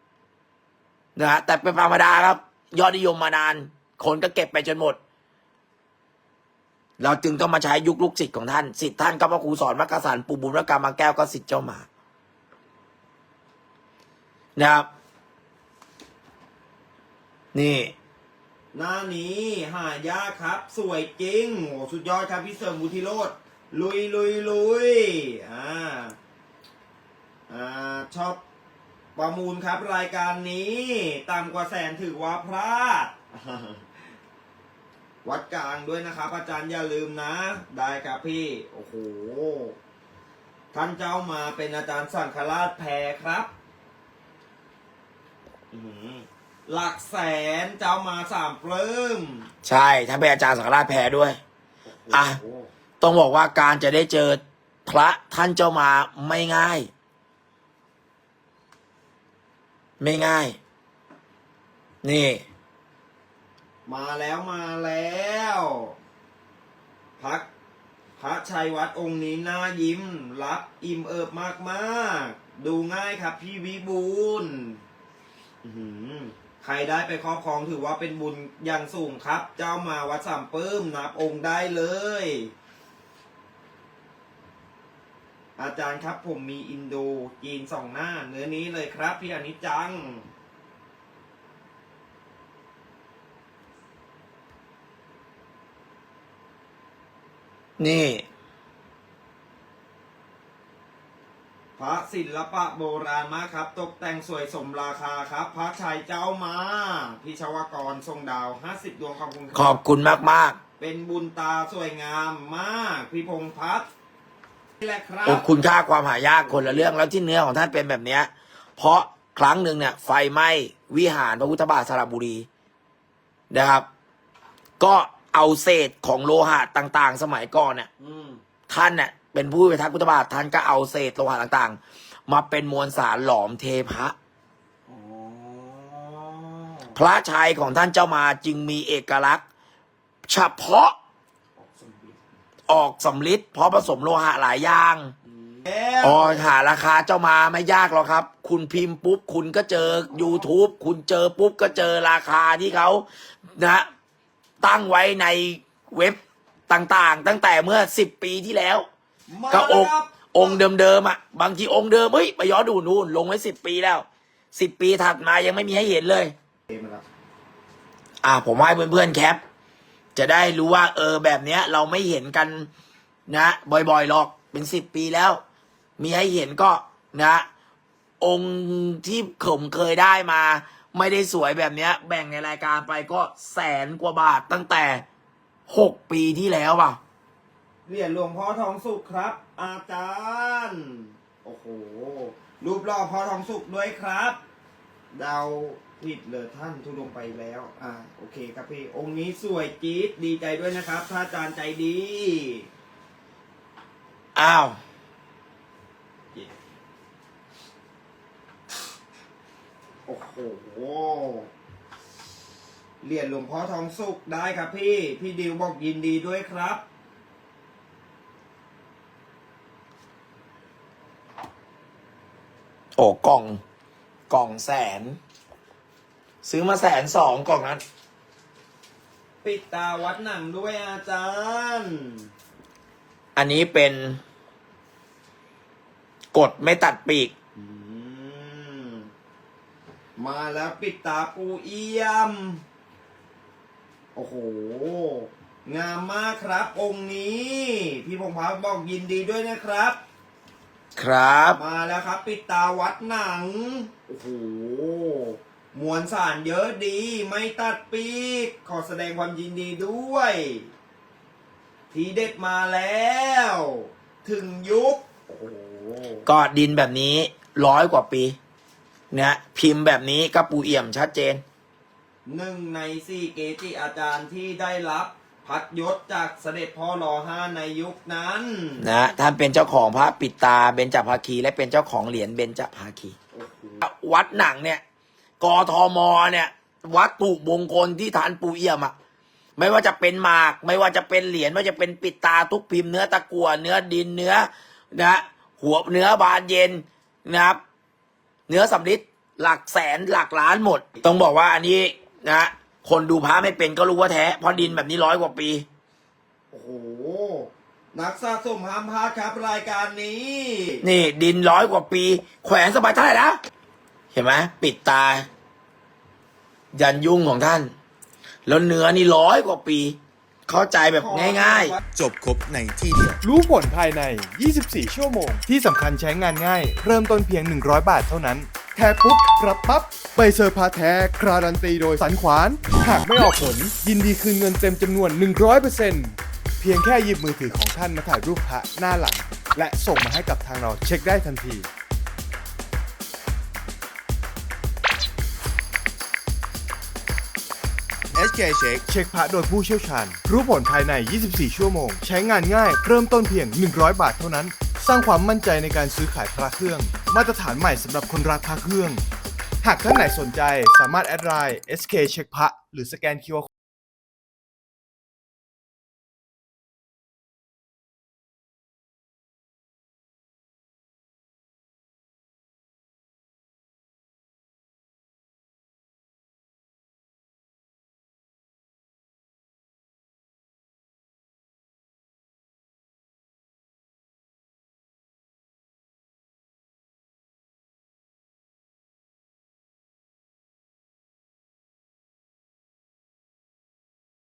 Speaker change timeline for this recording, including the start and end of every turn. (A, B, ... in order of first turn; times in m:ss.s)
0:01.2-0:05.0 A
0:07.0-0:11.8 A
0:14.6-0:14.9 A
0:17.5-0:17.9 A
0:18.7-0:26.2 B
0:27.5-0:28.4 B
0:29.2-0:33.9 B
0:35.2-0:39.8 B
0:40.7-0:43.5 B
0:45.7-0:49.5 B
0:49.6-0:51.4 A
0:51.8-0:52.7 B
0:52.1-0:52.4 A
0:53.0-0:56.9 A
1:00.0-1:00.6 A
1:02.0-1:02.4 A
1:03.8-1:06.0 B
1:07.2-1:07.5 B
1:08.2-1:14.8 B
1:15.6-1:22.5 B
1:25.6-1:30.3 B
1:37.8-1:38.2 A
1:41.8-1:49.8 B
1:49.5-1:50.6 A
1:50.8-1:53.9 B
1:54.8-1:55.5 B
1:55.2-2:02.5 A
1:56.4-1:56.9 B
2:03.5-2:03.8 A
2:04.8-2:07.9 A
2:08.0-2:08.4 B
2:08.7-2:14.1 A
2:14.9-2:17.0 B
2:16.9-2:19.4 A
2:20.3-2:20.9 A
2:21.6-2:22.2 B
2:22.7-2:25.1 A
2:25.2-2:26.4 B
2:26.0-2:33.0 A
2:30.1-2:30.4 B
2:33.6-2:33.9 A
2:34.6-2:38.8 A
2:39.3-2:40.6 B
2:39.5-2:46.3 A
2:46.7-2:47.0 B
2:48.2-2:49.4 A
2:50.2-2:52.7 A
2:53.3-2:55.4 A
2:56.0-2:57.5 A
2:58.2-3:05.0 A
3:05.7-3:07.0 A
3:07.8-3:14.4 B
3:15.1-3:22.7 B
3:24.3-3:24.8 A
3:30.0-3:31.5 B
3:33.0-3:36.8 B
3:43.0-3:43.6 A
3:44.3-3:45.2 A
3:46.4-3:47.8 A
3:49.4-3:52.3 B
3:53.4-3:54.2 A
3:56.3-3:57.3 A
3:57.6-3:59.1 B
4:00.2-4:02.6 B
4:04.1-4:10.0 B
4:11.0-4:11.6 A
4:11.5-4:20.7 B
4:21.9-4:26.2 B
4:26.2-4:28.4 A
4:29.1-4:31.4 A
4:32.2-4:38.9 B
4:38.8-4:43.1 A
4:43.3-4:43.8 B
4:43.8-4:44.8 A
4:45.4-4:48.9 A
4:49.6-4:57.6 A
4:58.5-5:05.6 A
5:06.5-5:10.8 B
5:10.8-5:13.4 A
5:14.1-5:15.3 A
5:16.7-5:17.7 A
5:18.4-5:21.8 A
5:21.0-5:21.8 B
5:21.9-5:23.2 C
5:23.2-5:41.7 D
5:48.1-5:48.8 C
5:48.9-5:59.0 D
5:59.6-6:03.5 D